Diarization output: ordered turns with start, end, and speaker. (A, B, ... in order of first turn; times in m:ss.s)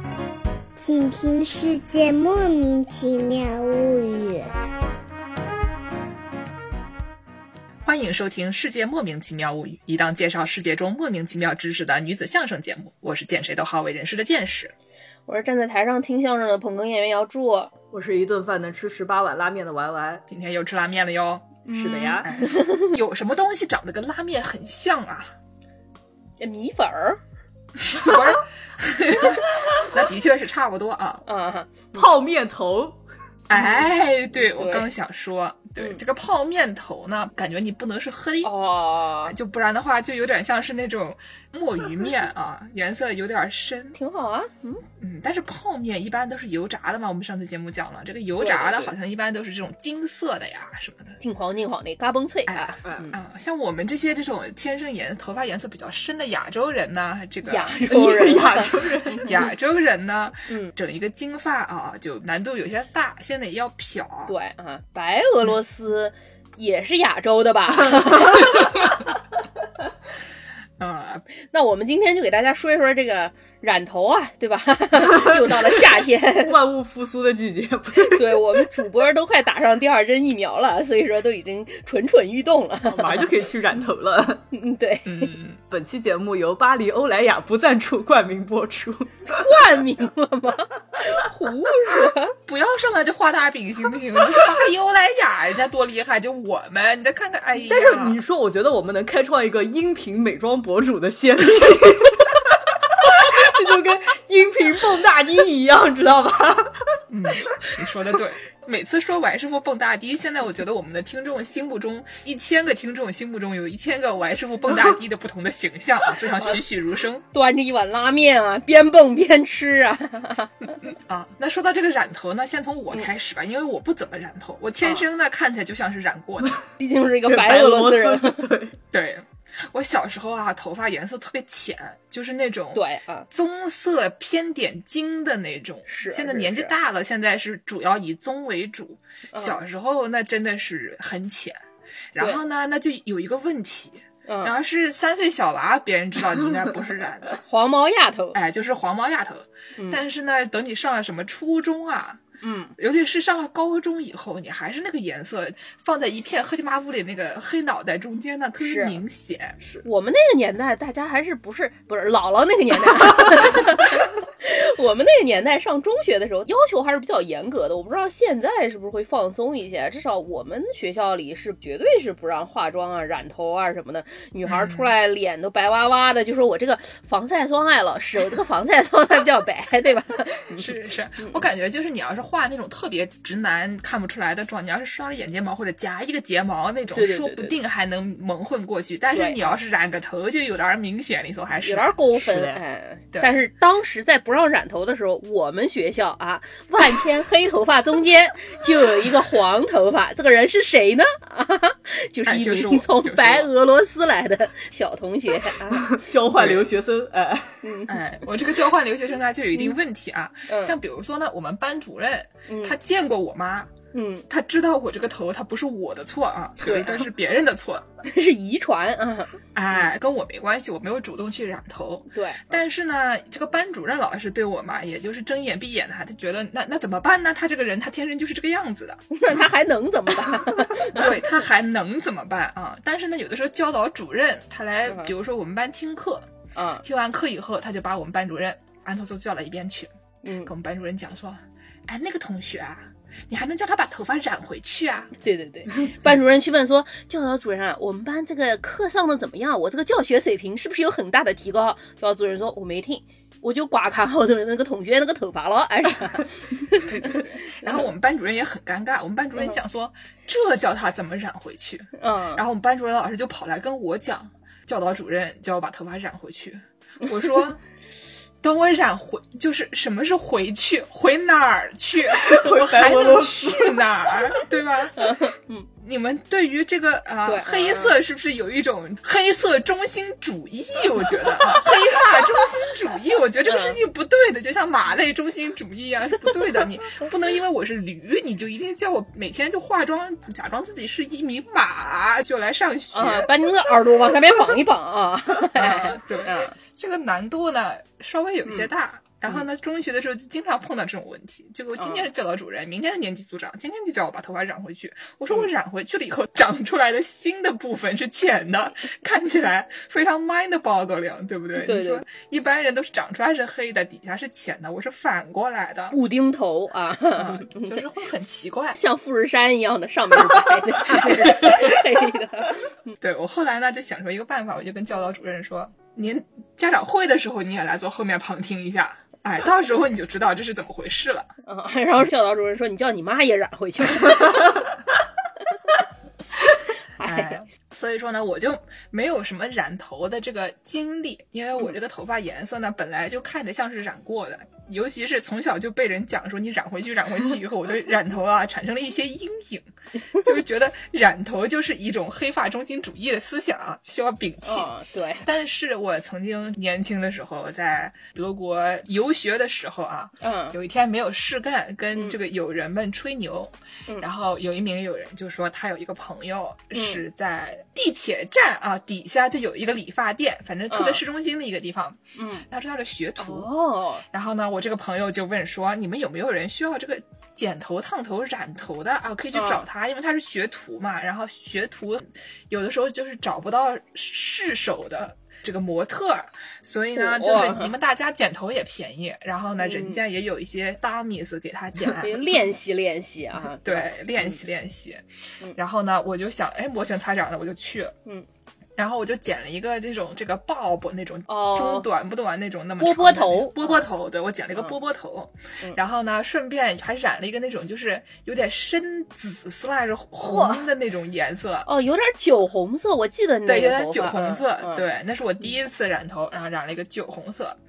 0:00.8-0:04.5 A
0:07.8-0:14.7 B
0:15.3-0:17.7 C
0:17.9-0:20.2 D
0:20.3-0:21.6 B
0:21.7-0:22.9 C
0:21.7-0:22.3 D
0:22.2-0:25.3 B
0:26.4-0:27.2 C
0:27.9-0:31.2 B
0:31.3-0:32.0 C
0:32.0-0:33.0 D
0:33.5-0:38.5 B
0:33.5-0:33.9 C
0:34.5-0:34.9 C
0:38.4-0:39.4 C
0:39.3-0:44.0 B
0:44.0-0:44.8 C
0:45.0-0:51.2 B
0:48.4-0:48.9 C
0:51.2-0:53.2 C
0:52.5-0:57.9 B
0:52.8-0:53.1 D
0:57.4-0:59.4 C
0:57.9-0:59.3 D
0:59.2-1:04.3 B
1:00.5-1:00.7 C
1:04.3-1:08.8 C
1:10.8-1:11.2 B
1:11.5-1:16.6 C
1:15.0-1:18.7 D
1:18.0-1:23.3 C
1:22.9-1:24.4 D
1:24.5-1:25.3 C
1:25.1-1:25.6 B
1:25.7-1:29.4 D
1:29.3-1:32.3 C
1:32.4-1:38.2 B
1:37.5-1:47.0 D
1:47.1-1:57.2 B
1:57.3-2:00.8 C
2:00.8-2:06.6 B
2:06.8-2:08.4 C
2:07.3-2:08.8 D
2:08.9-2:21.6 B
2:12.7-2:13.3 C
2:15.9-2:16.7 C
2:19.3-2:19.6 C
2:22.1-2:27.4 B
2:24.3-2:24.5 C
2:27.4-2:28.4 C
2:28.3-2:32.2 B
2:29.8-2:30.0 C
2:32.4-2:32.7 C
2:32.8-2:39.6 B
2:38.6-2:39.0 C
2:39.8-3:01.4 C
2:54.5-2:54.9 B
3:00.6-3:12.6 B
3:07.0-3:07.6 C
3:09.1-3:09.6 C
3:11.6-3:26.0 C
3:13.1-3:13.4 B
3:22.2-3:23.5 B
3:25.7-3:27.6 D
3:26.3-3:26.7 B
3:27.6-3:28.0 C
3:27.9-3:33.7 B
3:30.5-3:30.8 C
3:32.5-3:32.8 C
3:33.9-3:34.2 C
3:34.3-3:37.8 B
3:36.6-3:37.0 C
3:38.0-3:39.4 C
3:39.5-3:49.0 B
3:42.1-3:42.4 C
3:49.1-3:51.1 C
3:50.8-3:56.2 B
3:54.8-3:55.1 C
3:56.5-3:56.8 C
3:56.8-3:59.9 B
4:00.2-4:00.5 C
4:00.4-4:05.1 B
4:05.2-4:17.8 C
4:16.8-4:27.6 B
4:22.0-4:22.4 C
4:28.4-4:35.1 B
4:32.1-4:33.9 D
4:35.0-4:35.7 C
4:35.8-4:53.3 B
4:37.2-4:37.9 C
4:43.5-4:43.8 C
4:52.9-4:56.6 C
4:55.6-5:16.0 B
5:01.8-5:02.1 C
5:11.6-5:12.0 C
5:15.9-5:17.8 C
5:17.2-5:18.8 B
5:18.8-5:22.9 C
5:20.2-5:21.8 B
5:23.0-5:31.3 B
5:31.4-5:34.6 C
5:37.0-5:37.4 C
5:37.0-5:54.7 B
5:54.4-5:55.2 C
5:55.2-6:13.5 B
6:00.2-6:00.6 C
6:06.7-6:07.0 C
6:10.7-6:11.0 C
6:12.2-6:12.4 C
6:13.2-6:14.0 C
6:14.1-6:32.4 B
6:19.3-6:19.6 C
6:26.9-6:27.7 C
6:29.6-6:30.0 C
6:31.9-6:34.4 C
6:33.4-6:35.0 B
6:35.6-6:37.9 B
6:38.8-6:51.7 B
6:41.3-6:41.9 C
6:42.8-6:43.8 C
6:50.2-6:50.6 D
6:51.7-6:54.8 C
6:53.5-6:57.6 B